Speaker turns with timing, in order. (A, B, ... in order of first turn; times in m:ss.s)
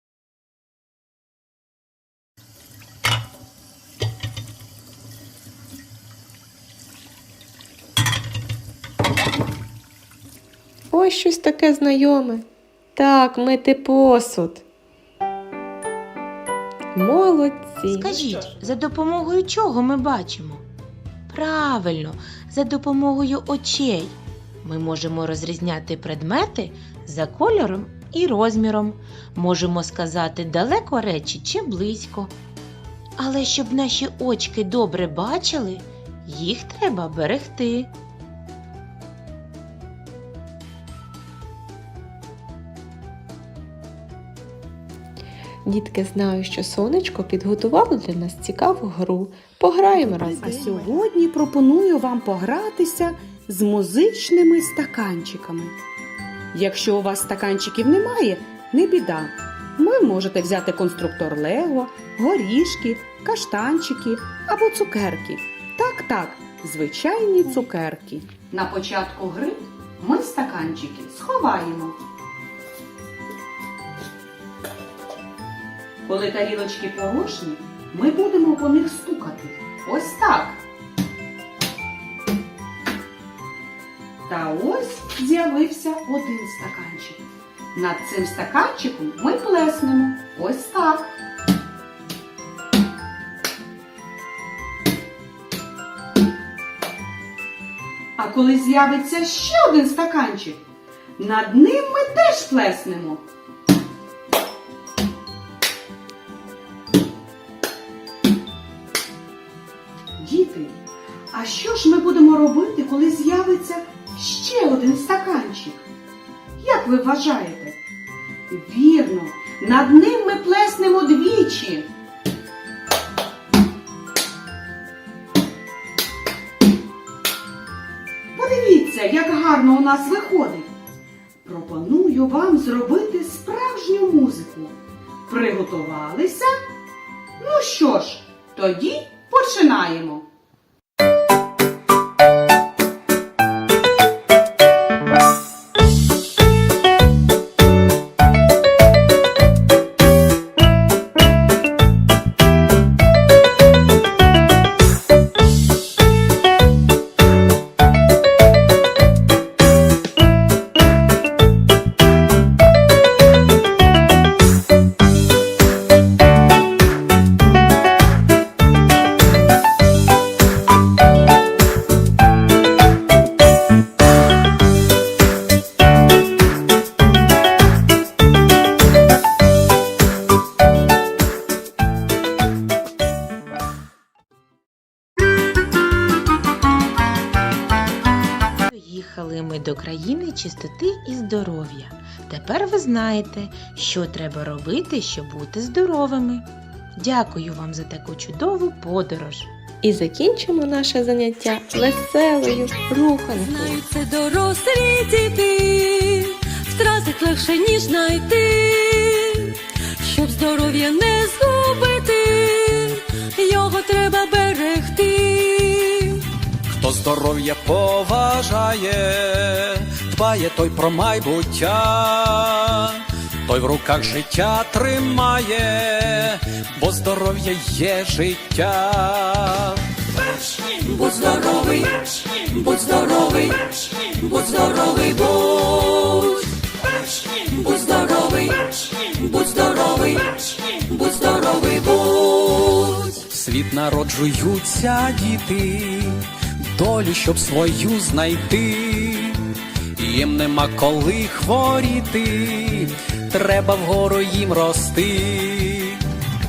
0:10.9-0:12.4 A
0:13.0-0:14.6 A
0:16.9-0:18.5 A
0:17.9-0:20.6 B
0:21.3-0:32.3 B
0:33.2-0:37.9 B
0:45.6-0:50.9 A
0:50.3-0:55.7 C
0:56.5-1:12.0 C
1:16.0-1:20.6 C
1:24.2-1:31.2 C
1:38.2-1:40.6 C
1:41.2-1:43.2 C
1:50.2-1:50.8 C
1:51.3-1:55.9 C
1:56.6-1:57.8 C
1:58.5-2:01.9 C
2:08.3-2:10.7 C
2:11.4-2:16.6 C
2:17.4-2:20.3 C
3:08.6-3:19.5 B
3:19.8-3:23.8 A
3:23.3-3:36.3 D
3:36.7-3:49.8 E
3:50.6-3:56.5 D
3:57.2-4:03.2 D
4:03.1-4:06.2 E
4:06.7-4:09.4 E
4:10.0-4:16.0 E